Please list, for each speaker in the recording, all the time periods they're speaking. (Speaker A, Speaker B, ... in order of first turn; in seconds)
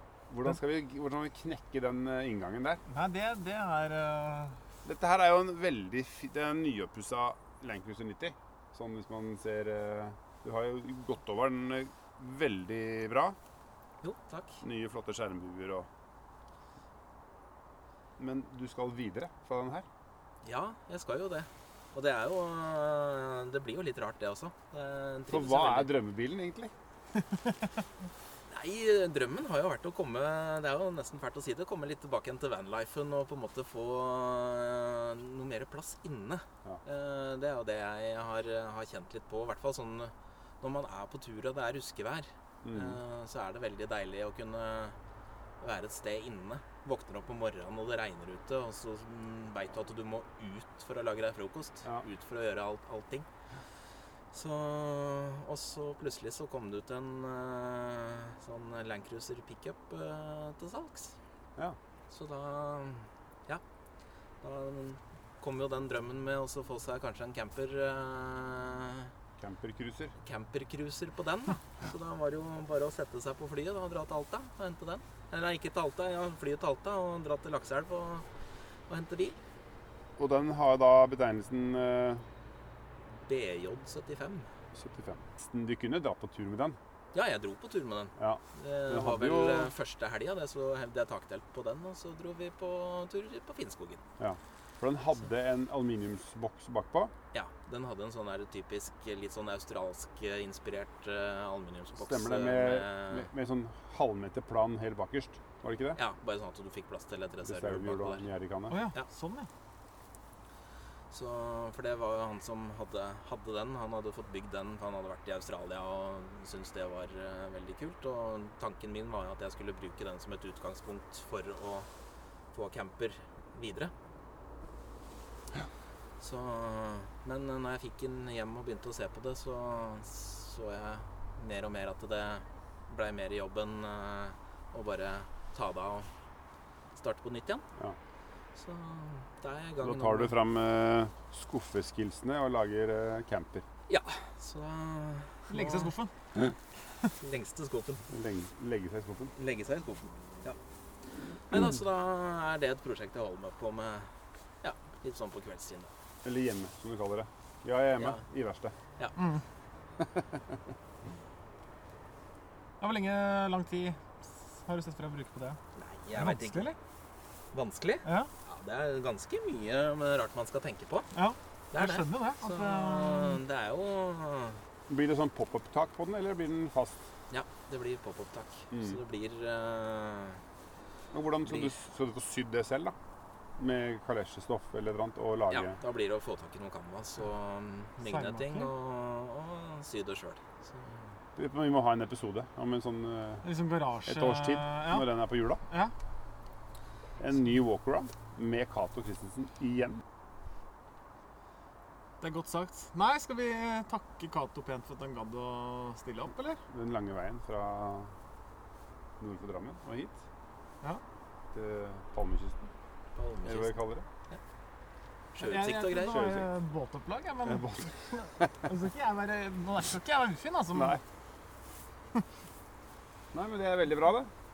Speaker A: 0.3-2.8, 4.8-13.4, 14.6-15.9, 18.2-19.9, 25.3-26.7, 42.6-43.0, 69.4-70.1, 80.2-82.2, 84.7-86.8, 88.2-89.7, 94.2-97.1, 102.0-106.0, 107.4-108.8, 139.8-143.7, 148.1-149.3, 156.2-158.7, 160.0-160.3, 174.9-177.1, 178.7-179.0, 181.1-182.9, 183.6-185.8, 191.3-193.4, 194.0-195.6, 197.2-200.0, 206.7-208.1, 209.2-210.2, 211.5-212.6, 213.4-214.0, 216.0-216.5, 217.4-218.5, 220.7-221.0, 223.3-224.3
Speaker B: 2.9-4.6, 108.7-109.5, 145.5-146.1, 159.2-159.4, 162.8-165.6, 166.1-166.8, 168.0-168.3, 171.1-173.4, 188.0-188.7, 193.4-195.1, 195.6-195.9, 202.2-206.6, 215.4-221.0
Speaker C: 14.0-14.6, 20.4-26.0, 28.5-45.0, 45.6-53.3, 54.3-61.1, 62.1-63.6, 64.4-69.1, 70.2-78.2, 78.9-79.4, 83.2-84.5, 87.1-94.0, 97.3-103.3, 106.0-108.2, 111.1-121.9, 122.5-123.9, 126.2-136.1, 136.9-137.6, 138.5-140.3, 143.9-145.9, 147.2-148.1, 149.3-150.6, 151.5-154.1, 154.6-155.9, 165.7-166.7, 167.5-171.1, 171.7-174.6, 177.3-180.4, 181.4-181.7, 185.5-191.1, 213.1-214.4, 215.3-216.2